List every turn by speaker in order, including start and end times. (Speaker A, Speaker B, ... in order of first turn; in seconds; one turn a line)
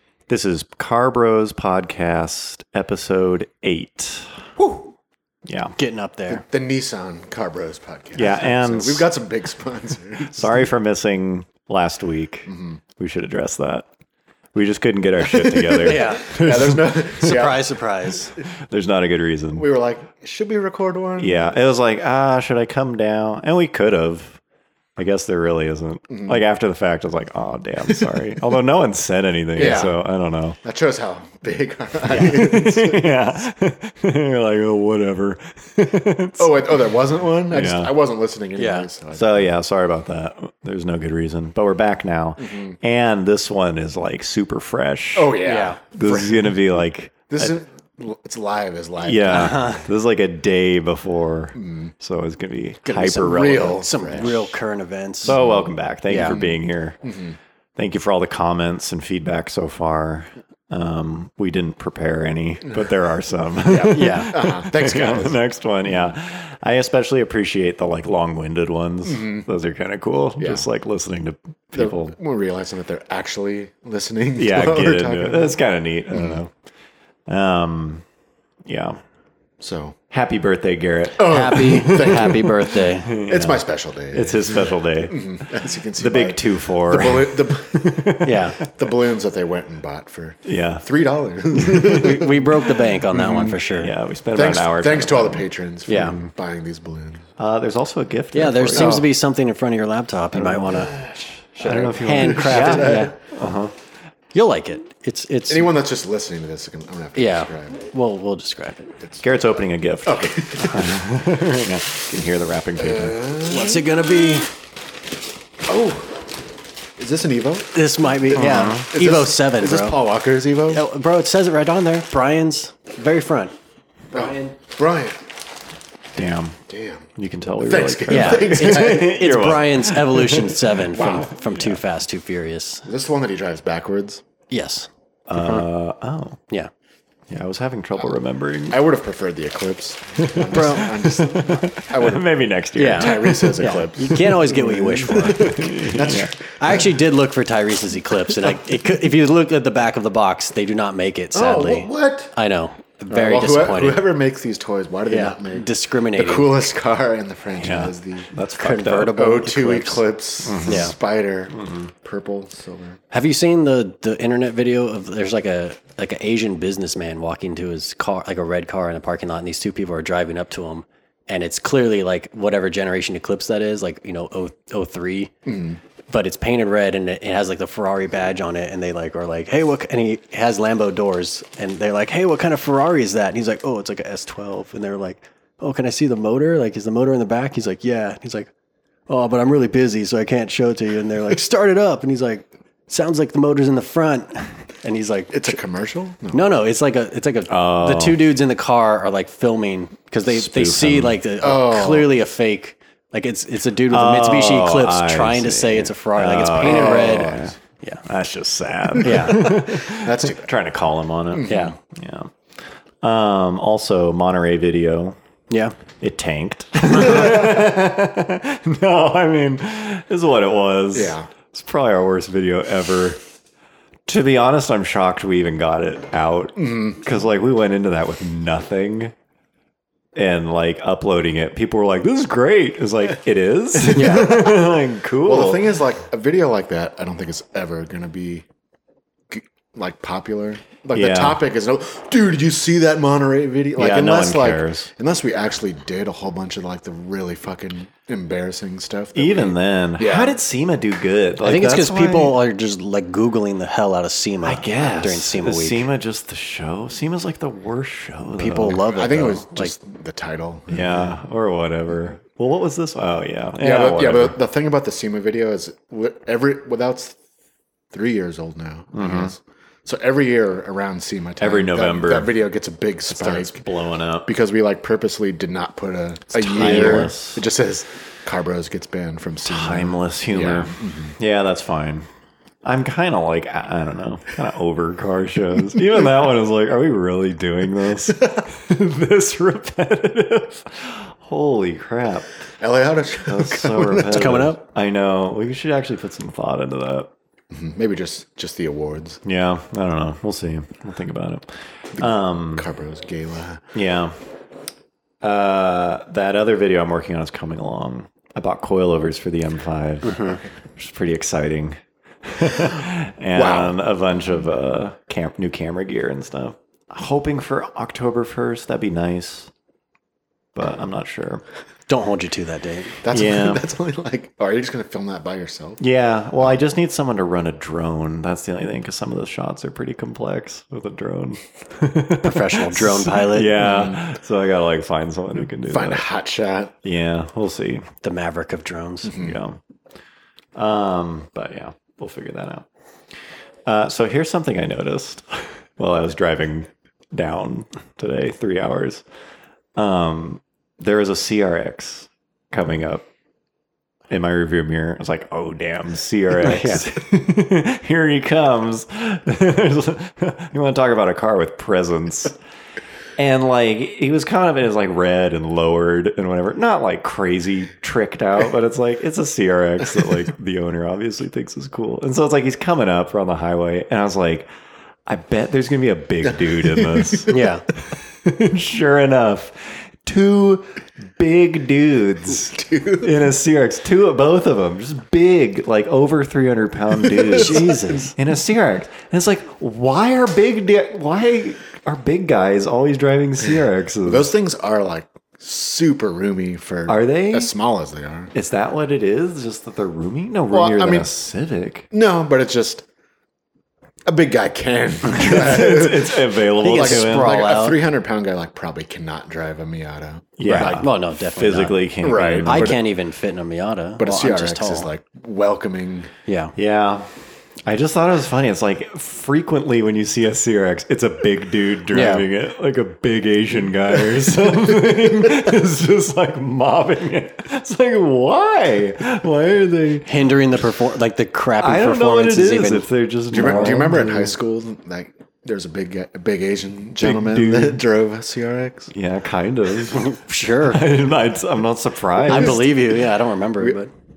Speaker A: 0.3-4.5
Speaker B: 4.6-4.9
Speaker A: 5.5-5.8
Speaker C: 5.8-6.4
Speaker B: 6.3-10.7
Speaker A: 8.1-9.1
Speaker A: 10.2-13.9
Speaker B: 12.5-12.8
Speaker A: 14.5-17.4
Speaker B: 15.2-17.8
Speaker C: 15.8-16.4
Speaker C: 17.2-18.3
Speaker A: 18.4-19.7
Speaker B: 19.6-21.5
Speaker A: 21.2-24.4
Speaker A: 25.0-30.6
Speaker B: 26.1-26.4
Speaker B: 29.6-30.0
Speaker B: 30.6-33.0
Speaker A: 32.0-36.8
Speaker B: 36.4-39.5
Speaker A: 37.5-37.9
Speaker C: 38.5-38.9
Speaker A: 39.1-47.5
Speaker B: 42.4-42.8
Speaker B: 45.1-46.6
Speaker C: 45.4-45.8
Speaker B: 47.3-49.7
Speaker A: 49.0-53.8
Speaker C: 49.3-49.8
Speaker B: 51.6-51.9
Speaker C: 52.8-55.4
Speaker B: 53.2-54.4
Speaker A: 55.2-57.0
Speaker B: 55.2-57.4
Speaker C: 56.1-56.4
Speaker A: 57.8-72.2
Speaker B: 63.6-66.1
Speaker C: 63.9-64.3
Speaker B: 69.1-69.5
Speaker B: 70.4-70.7
Speaker B: 71.7-75.6
Speaker A: 74.4-76.5
Speaker B: 76.1-76.4
Speaker A: 77.3-78.0
Speaker A: 78.7-79.0
Speaker B: 79.6-80.0
Speaker A: 80.1-88.7
Speaker B: 81.2-92.5
Speaker C: 81.2-83.1
Speaker C: 88.2-88.6
Speaker A: 90.5-90.8
Speaker A: 91.5-92.1
Speaker C: 91.7-93.9
Speaker B: 93.1-93.6
Speaker A: 93.7-96.3
Speaker B: 94.3-97.2
Speaker C: 95.9-96.2
Speaker A: 97.4-99.1
Speaker C: 98.3-101.0
Speaker B: 98.7-99.0
Speaker A: 100.4-101.0
Speaker B: 101.0-103.2
Speaker A: 101.6-103.7
Speaker C: 101.6-103.1
Speaker C: 104.3-105.7
Speaker B: 105.5-107.8
Speaker C: 107.1-108.9
Speaker A: 109.2-113.2
Speaker B: 110.0-111.0
Speaker B: 112.8-113.9
Speaker C: 113.5-114.5
Speaker B: 115.7-116.3
Speaker B: 117.0-120.8
Speaker C: 117.7-120.0
Speaker A: 118.4-118.9
Speaker C: 120.7-123.5
Speaker B: 124.1-125.2
Speaker C: 124.1-124.5
Speaker A: 126.1-126.6
Speaker B: 126.7-127.1
Speaker A: 127.2-130.8
Speaker B: 127.6-129.1
Speaker C: 128.1-132.9
Speaker B: 130.9-131.3
Speaker B: 132.9-134.2
Speaker C: 134.5-135.7
Speaker A: 135.3-136.4
Speaker A: 137.3-138.8
Speaker B: 138.7-142.3
Speaker A: 140.2-144.3
Speaker C: 140.5-140.9
Speaker C: 142.8-145.6
Speaker B: 142.9-146.8
Speaker A: 145.0-146.3
Speaker C: 146.6-154.1
Speaker B: 151.3-152.3
Speaker B: 153.1-158.3
Speaker C: 155.1-156.5
Speaker A: 157.6-159.1
Speaker C: 158.6-160.1
Speaker B: 159.1-163.0
Speaker A: 160.4-160.9
Speaker C: 160.6-160.9
Speaker A: 161.5-161.9
Speaker C: 163.1-175.3
Speaker B: 175.4-175.8
Speaker C: 176.1-188.5
Speaker C: 189.1-195.6
Speaker B: 195.3-196.4
Speaker C: 196.3-208.1
Speaker A: 197.5-198.2
Speaker A: 200.3-201.2
Speaker B: 201.4-202.1
Speaker A: 203.9-212.3
Speaker B: 206.6-207.6
Speaker C: 209.0-209.6
Speaker B: 209.1-210.5
Speaker B: 211.3-211.8
Speaker C: 211.5-211.8
Speaker A: 213.0-215.2
Speaker C: 215.5-215.8
Speaker A: 216.0-223.2
Speaker B: 220.9-221.3
Speaker A: 224.1-229.1
Speaker B: 226.6-227.0
Speaker A: 230.1-235.7
Speaker B: 233.8-238.5
Speaker C: 233.9-234.4
Speaker B: 239.3-250.4
Speaker A: 240.9-241.4
Speaker A: 243.8-244.9
Speaker A: 249.1-252.4
Speaker C: 251.4-255.8
Speaker A: 254.4-258.8
Speaker C: 258.4-259.7
Speaker B: 258.8-261.1
Speaker A: 260.7-264.4
Speaker B: 263.6-267.2
Speaker B: 267.9-273.6
Speaker A: 268.9-269.3
Speaker A: 271.4-272.3
Speaker A: 273.1-274.3
Speaker B: 274.2-281.1
Speaker A: 276.3-277.4
Speaker A: 279.4-282.1
Speaker A: 282.6-292.4
Speaker B: 292.6-294.4
Speaker A: 293.3-297.1
Speaker C: 294.1-294.6
Speaker B: 297.5-299.2
Speaker A: 299.2-301.5
Speaker B: 301.9-303.6
Speaker A: 302.0-302.7
Speaker A: 303.7-304.1
Speaker A: 305.2-319.5
Speaker B: 313.3-313.8
Speaker A: 320.5-321.4
Speaker C: 321.9-323.0
Speaker B: 323.0-325.8
Speaker A: 323.1-323.6
Speaker A: 325.8-336.1
Speaker C: 332.2-333.6
Speaker B: 333.6-334.0
Speaker B: 335.7-336.7
Speaker A: 336.8-337.9
Speaker C: 338.0-339.2
Speaker B: 339.0-339.4
Speaker A: 339.1-339.6
Speaker A: 340.5-342.6
Speaker A: 343.6-349.0
Speaker A: 349.8-353.0
Speaker A: 354.1-362.4
Speaker C: 356.4-356.8
Speaker A: 363.2-374.5
Speaker A: 375.1-377.3
Speaker B: 376.2-377.4
Speaker C: 377.3-377.6
Speaker A: 377.9-394.3
Speaker B: 382.4-383.1
Speaker B: 387.0-388.1
Speaker C: 387.3-388.1
Speaker B: 394.1-398.3
Speaker A: 396.9-397.5
Speaker A: 398.3-401.9
Speaker B: 400.5-401.1
Speaker B: 401.9-402.9
Speaker B: 404.1-410.9
Speaker A: 405.1-407.4
Speaker C: 406.6-407.8
Speaker A: 410.4-412.8
Speaker C: 410.5-411.8
Speaker B: 412.0-412.8
Speaker C: 412.4-414.9
Speaker B: 414.0-416.1
Speaker C: 416.3-416.5
Speaker A: 416.6-417.1
Speaker A: 417.6-430.1
Speaker C: 421.9-422.2
Speaker B: 424.9-425.3
Speaker C: 430.1-433.8
Speaker A: 431.6-434.3
Speaker B: 433.3-438.9
Speaker A: 437.0-437.8
Speaker A: 438.9-442.8
Speaker C: 439.9-440.8
Speaker C: 442.2-443.9